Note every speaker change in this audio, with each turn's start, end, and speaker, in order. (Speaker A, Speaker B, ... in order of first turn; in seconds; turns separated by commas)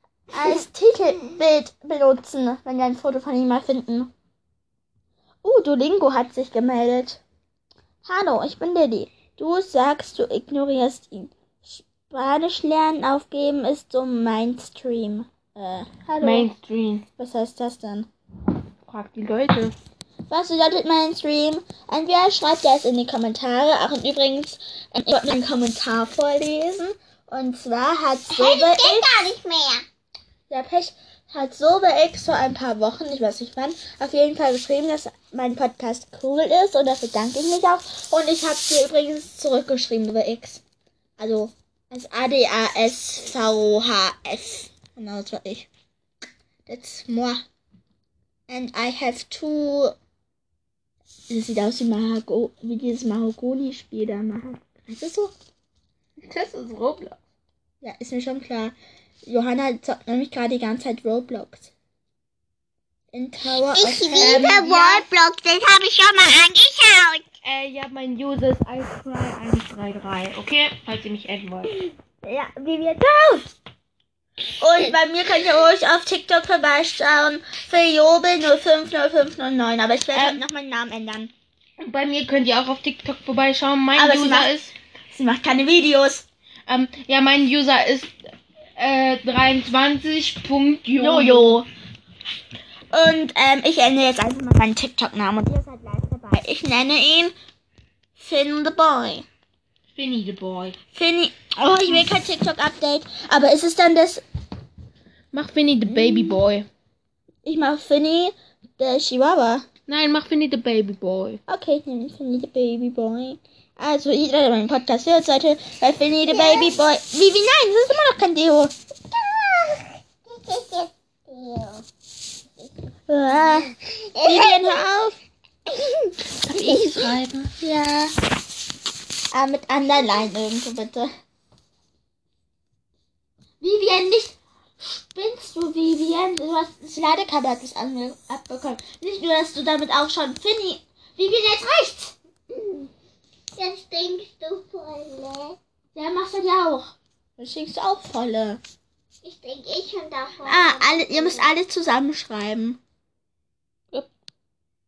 Speaker A: 0.3-4.1, Speaker A: 5.4-7.2, Speaker A: 8.0-16.5, Speaker B: 16.2-17.0, Speaker A: 17.2-18.1, Speaker B: 18.9-19.7, Speaker A: 20.3-29.1, Speaker C: 28.3-29.9, Speaker A: 30.5-40.6, Speaker A: 41.2-45.7, Speaker A: 46.6-47.4, Speaker A: 48.5-49.9, Speaker A: 51.3-55.3, Speaker B: 56.2-57.2, Speaker A: 57.8-61.7, Speaker A: 63.1-65.0, Speaker C: 63.7-67.2, Speaker B: 64.2-64.5, Speaker B: 67.4-71.8, Speaker A: 72.2-73.5, Speaker A: 74.6-81.3, Speaker B: 80.1-80.4, Speaker B: 81.8-84.7, Speaker A: 83.9-84.6, Speaker A: 85.1-86.2, Speaker B: 86.7-88.1, Speaker B: 88.8-91.6, Speaker A: 91.0-91.7, Speaker A: 92.9-97.3, Speaker A: 98.2-99.2, Speaker B: 99.9-100.8, Speaker A: 100.9-104.2, Speaker B: 105.3-106.7, Speaker A: 105.9-106.4, Speaker A: 107.4-109.6, Speaker B: 109.9-111.4, Speaker A: 111.5-118.7, Speaker C: 116.3-116.7, Speaker C: 119.1-121.8, Speaker A: 123.1-125.2, Speaker C: 124.0-124.8, Speaker C: 125.7-127.1, Speaker B: 126.4-127.5, Speaker A: 127.6-128.1, Speaker A: 129.3-131.1, Speaker A: 133.6-142.1, Speaker C: 143.6-145.6, Speaker A: 145.9-148.6, Speaker C: 149.2-151.5, Speaker A: 150.4-152.8